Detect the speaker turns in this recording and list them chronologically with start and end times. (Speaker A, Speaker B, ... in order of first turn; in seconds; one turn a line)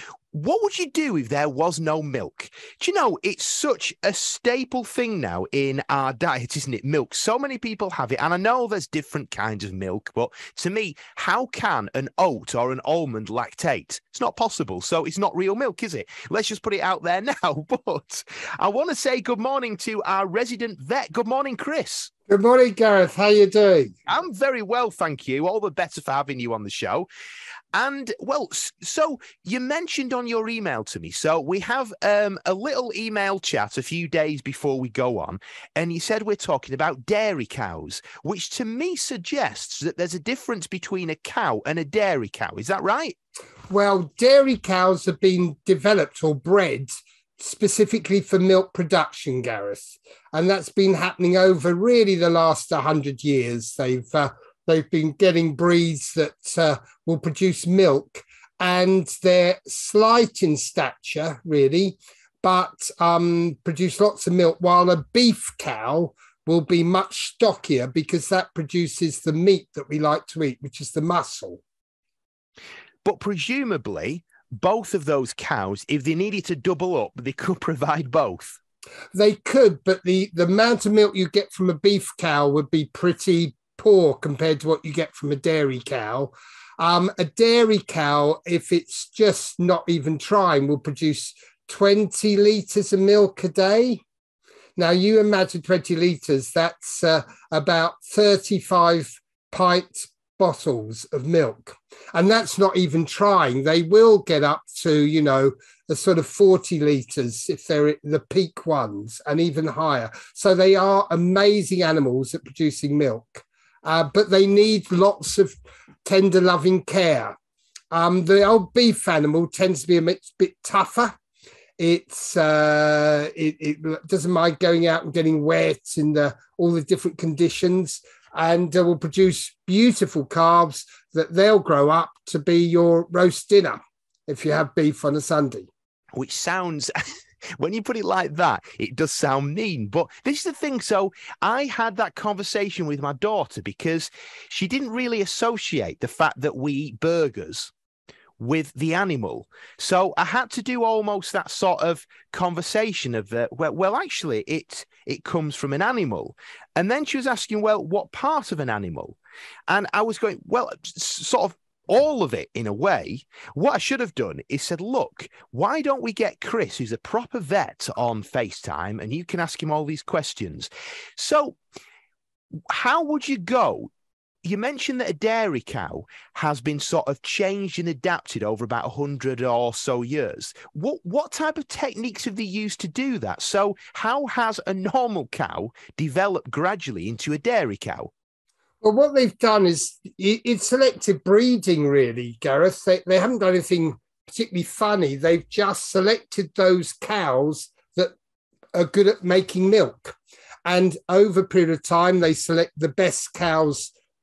Speaker A: 0.3-22.1
Speaker B: 22.3-23.9
Speaker A: 24.1-27.1
Speaker A: 27.7-43.1
Speaker B: 43.7-71.6
Speaker A: 73.0-78.6
Speaker B: 79.1-94.0
Speaker B: 94.8-117.3
Speaker B: 117.9-121.2
Speaker B: 121.8-135.7
Speaker A: 136.2-136.9
Speaker A: 137.6-147.7
Speaker A: 148.4-159.2
Speaker A: 159.7-171.6
Speaker A: 172.7-173.9
Speaker A: 174.4-188.1
Speaker B: 188.8-198.1
Speaker B: 198.7-203.9